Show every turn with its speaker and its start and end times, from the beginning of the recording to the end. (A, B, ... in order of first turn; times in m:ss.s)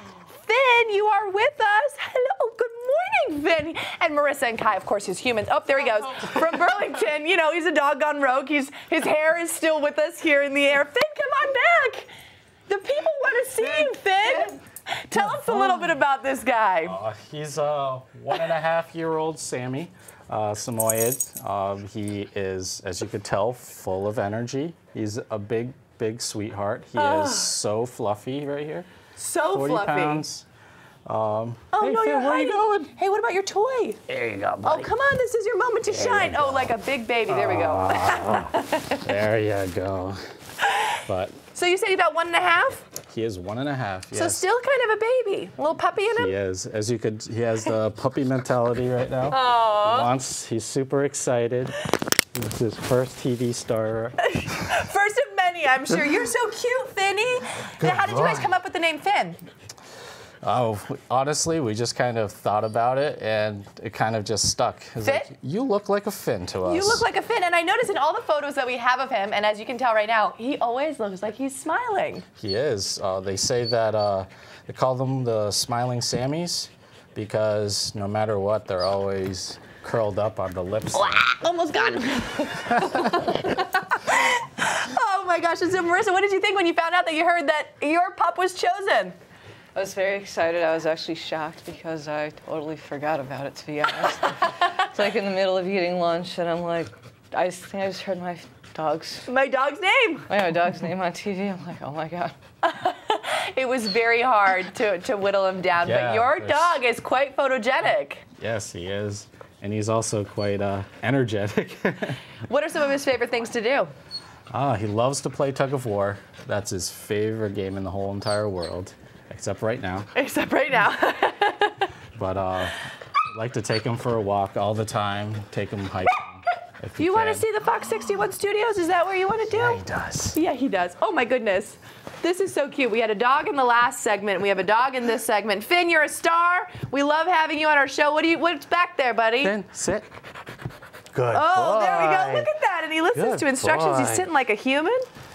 0:00.4-0:12.1 A
0:12.7-0:17.0 A
0:15.3-0:15.9 B
0:16.8-0:28.9 B
0:27.0-0:27.5 A
0:29.2-0:30.2 A
0:29.5-0:30.4 B
0:31.0-0:32.9 B
0:31.7-0:34.0 A
0:34.1-0:34.9 B
0:34.6-0:39.1 A
0:35.9-0:36.8 B
0:37.3-0:40.2 B
0:40.6-0:41.0 A
0:41.1-0:41.4 B
0:41.5-0:42.9 A
0:43.0-0:44.4 B
0:44.1-0:46.3 A
0:46.1-0:51.8 B
0:49.3-0:50.1 A
0:52.3-0:54.2 B
0:54.2-0:59.4 A
0:57.7-0:58.6 B
1:00.4-1:07.0 B
1:05.0-1:05.3 A
1:06.6-1:12.2 A
1:12.4-1:21.4 B
1:20.9-1:29.1 A
1:22.5-1:23.2 B
1:29.7-1:39.2 C
1:39.2-1:40.3 A
1:40.3-1:42.3 C
1:42.6-1:48.2 A
1:45.8-1:46.8 B
1:48.4-1:52.2 B
1:52.4-1:53.9 A
1:54.5-2:00.1 B
2:00.1-2:01.9 A
2:02.1-2:07.5 B
2:07.0-2:09.8 A
2:09.5-2:10.4 B
2:10.3-2:19.6 A
2:19.4-2:20.1 B
2:21.1-2:22.5 B
2:21.3-2:25.1 A
2:23.1-2:24.3 B